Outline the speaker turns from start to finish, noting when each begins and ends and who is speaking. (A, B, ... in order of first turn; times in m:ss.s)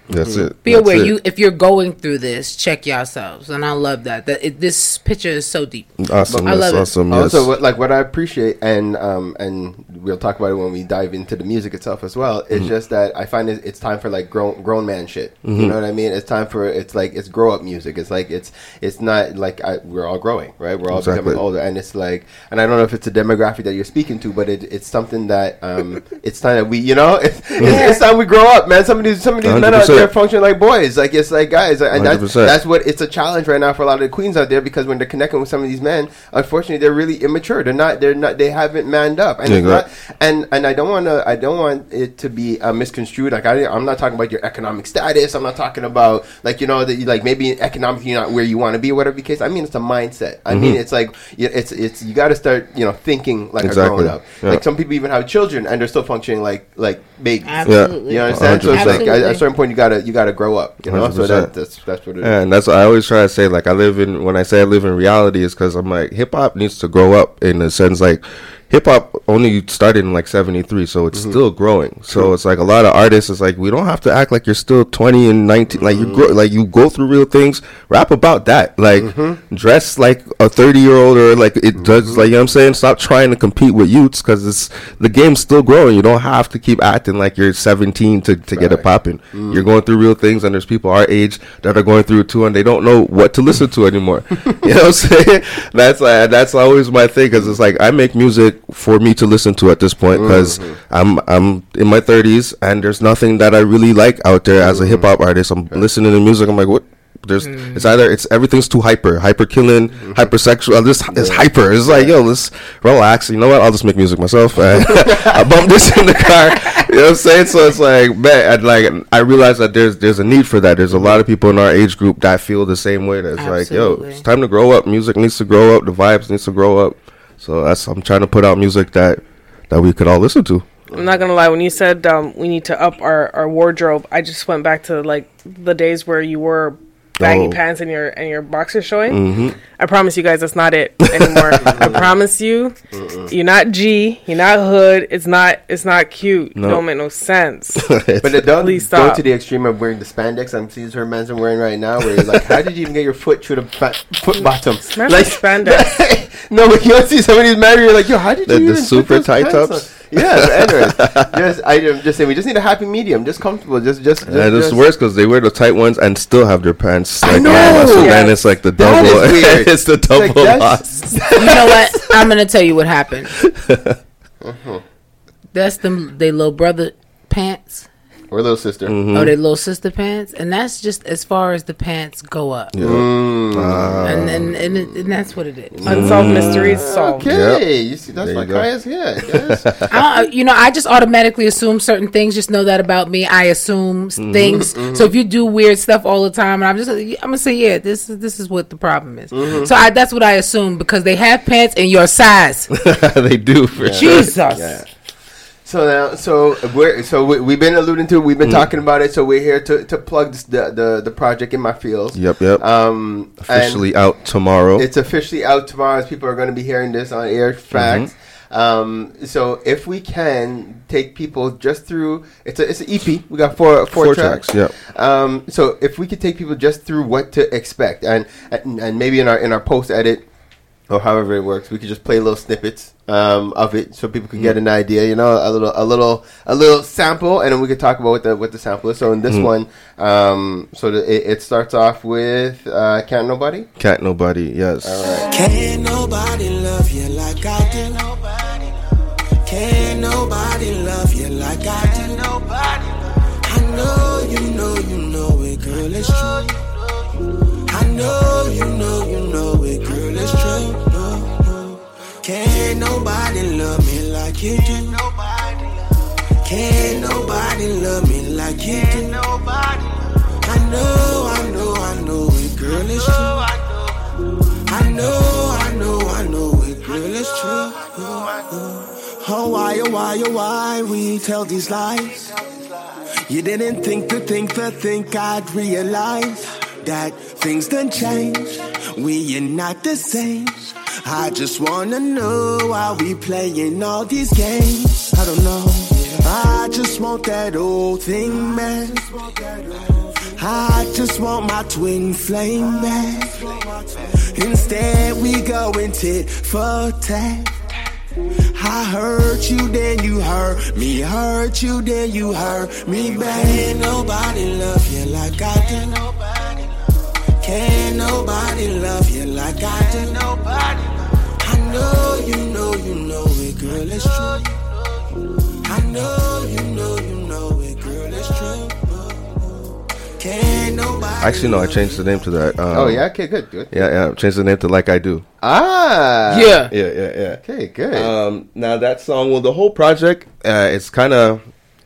0:00.1-0:00.5 A
0:00.1-0:01.1 B
0:00.6-0:06.9 C
0:06.0-0:07.5 B
0:06.3-0:06.5 A
0:07.1-1:02.3 A
0:15.4-0:15.8 B
0:20.9-0:21.4 B
0:27.6-0:27.8 B
0:27.6-0:28.0 C
0:29.4-0:30.1 B
0:31.9-0:32.6 B
0:39.4-0:39.8 B
0:50.5-0:50.8 B
0:53.6-0:54.6 B
0:57.4-0:59.4 C
0:57.6-0:59.0 B
1:00.8-1:01.5 B
1:02.2-2:10.6 B
1:11.1-1:11.4 A
1:15.7-1:16.3 A
1:18.9-1:19.4 A
1:21.8-1:22.2 A
1:28.5-1:29.6 A
1:40.1-1:40.8 A
1:44.6-1:45.1 A
1:47.4-1:47.8 C
1:50.0-1:50.3 A
1:51.1-1:52.1 A
1:54.8-1:55.4 A
2:00.9-2:01.2 A
2:03.4-2:04.2 C
2:10.9-2:11.2 A
2:10.9-2:19.2 D
2:17.2-2:17.6 B
2:19.1-2:19.6 B
2:19.8-2:22.8 D
2:21.2-2:22.0 B
2:21.6-2:22.1 A
2:22.9-2:23.3 A
2:23.3-2:27.9 D
2:26.6-2:26.8 B
2:27.8-2:28.5 B
2:28.2-2:44.8 A
2:28.6-2:29.2 D
2:32.2-2:32.4 B
2:34.4-2:36.0 D
2:38.4-2:41.3 B
2:44.2-2:50.9 B
2:47.2-2:48.3 C
2:47.4-2:47.8 A
2:47.8-2:48.4 D
2:48.8-2:51.9 A
2:51.3-2:53.3 C
2:51.4-2:51.8 B
2:53.4-2:54.0 B
2:54.4-2:54.8 A
2:55.5-2:57.9 C
2:58.3-2:59.0 A
2:58.8-2:59.4 B
2:59.1-3:02.7 C
3:02.7-3:04.5 B
3:02.8-3:04.7 A
3:04.0-3:06.0 C
3:05.7-3:09.7 A
3:05.8-3:07.2 D
3:05.8-3:08.7 B
3:09.3-3:09.9 B
3:09.9-3:22.7 C
3:14.2-3:14.6 B
3:14.5-3:15.1 A
3:19.3-3:19.7 A
3:22.7-3:24.3 B
3:23.8-3:24.9 A
3:24.0-3:24.8 C
3:25.6-3:33.8 A
3:28.4-3:28.7 B
3:32.1-3:32.6 B
3:33.4-3:34.8 B
3:34.8-3:50.2 A
3:37.7-3:38.1 B
3:43.9-3:44.7 B
3:50.9-4:03.7 A
4:03.8-4:05.0 B
4:04.8-4:05.3 A
4:05.2-4:08.7 E
4:09.4-4:16.6 E
4:17.6-4:25.7 E
4:26.4-4:33.7 E
4:34.6-4:42.3 E
4:43.2-5:07.5 E
5:08.5-5:16.6 E
5:17.4-5:24.6 E
5:25.6-5:32.0 E
5:31.2-5:33.0 B
5:32.7-5:33.9 A
5:33.7-5:35.2 B
5:35.4-5:36.6 A
5:36.3-5:36.7 C
5:36.7-5:37.4 B
5:37.4-5:38.1 A
5:37.9-5:41.4 B